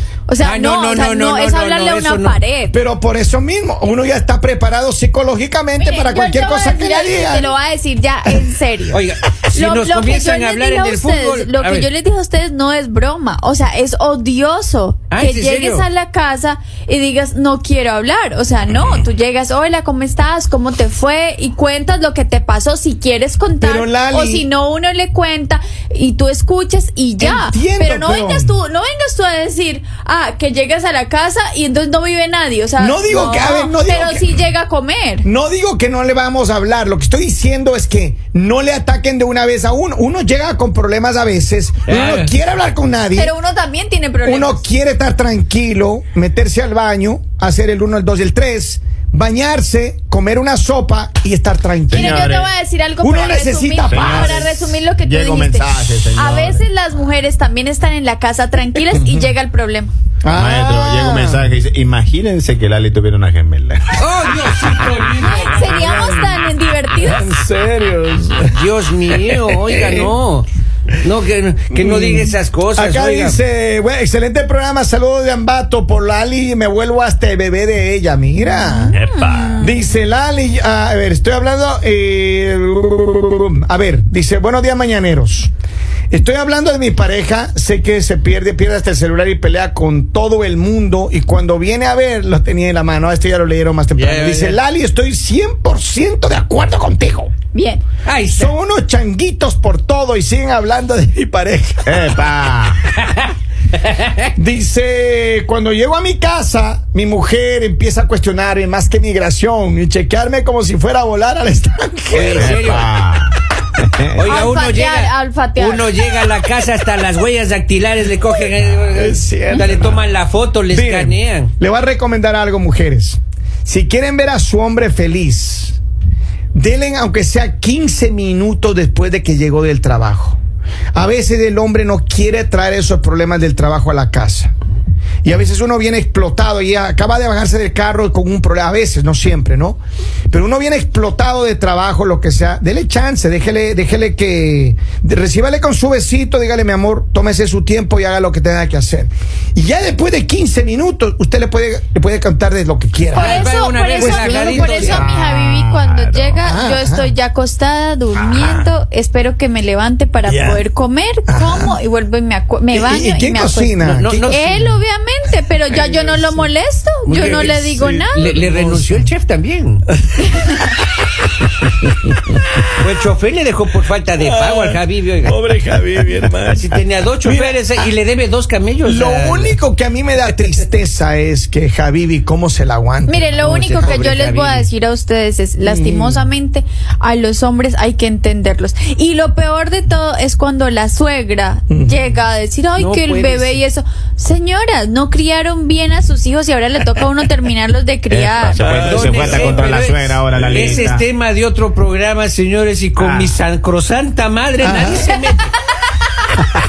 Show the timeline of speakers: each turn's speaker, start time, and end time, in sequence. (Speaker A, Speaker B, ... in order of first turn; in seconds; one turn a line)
Speaker A: 0.3-2.8
Speaker B: 0.4-2.4
Speaker C: 2.7-7.5
Speaker A: 5.8-9.0
Speaker B: 8.9-11.9
Speaker A: 9.5-35.2
Speaker B: 15.1-15.8
Speaker C: 23.6-24.5
Speaker C: 27.2-28.5
Speaker C: 32.8-34.4
Speaker C: 35.2-43.3
Speaker B: 41.9-42.3
Speaker A: 43.1-44.6
Speaker C: 44.2-52.3
Speaker D: 51.9-52.5
Speaker A: 51.9-59.9
Speaker C: 53.0-54.4
Speaker D: 53.9-56.6
Speaker C: 58.9-59.3
Speaker C: 60.2-61.5
Speaker D: 60.4-64.3
Speaker B: 63.9-65.7
Speaker A: 65.2-67.2
Speaker C: 65.6-66.4
Speaker C: 67.0-68.6
Speaker B: 68.5-70.5
Speaker C: 69.3-70.1
Speaker B: 71.0-73.4
Speaker C: 71.7-79.0
Speaker A: 78.4-79.8
Speaker D: 78.9-79.6
Speaker C: 79.6-85.5
Speaker C: 86.1-97.3
Speaker B: 93.9-94.6
Speaker A: 97.5-97.8
Speaker B: 98.0-98.5
Speaker C: 98.3-102.1
Speaker D: 101.8-102.8
Speaker C: 104.3-112.7
Speaker B: 112.1-112.9
Speaker D: 112.3-114.5
Speaker B: 114.1-121.5
Speaker A: 114.3-116.0
Speaker C: 118.9-120.0
Speaker C: 120.7-125.8
Speaker C: 126.5-130.4
Speaker C: 130.9-134.5
Speaker C: 135.2-139.8
Speaker C: 140.3-155.1
Speaker A: 153.1-168.3
Speaker B: 153.1-155.2
Speaker D: 155.0-156.4
Speaker C: 156.4-157.1
Speaker D: 158.3-158.6
Speaker C: 160.2-160.6
Speaker C: 161.3-161.8
Speaker C: 162.7-164.3
Speaker B: 163.9-164.8
Speaker C: 165.7-166.5
Speaker B: 167.1-167.6
Speaker C: 167.1-169.1
Speaker B: 168.1-169.8
Speaker C: 169.9-170.7
Speaker A: 170.2-170.7
Speaker C: 171.9-172.2
Speaker B: 172.7-175.4
Speaker C: 174.2-177.8
Speaker B: 176.5-179.6
Speaker C: 178.8-183.3
Speaker A: 183.1-198.7
Speaker B: 183.4-184.7
Speaker C: 185.6-186.3
Speaker C: 191.7-192.0
Speaker B: 192.8-193.6
Speaker D: 198.1-201.0
Speaker C: 198.6-199.6
Speaker B: 198.7-205.5
Speaker C: 200.4-200.7
Speaker D: 203.0-203.3
Speaker C: 204.6-205.1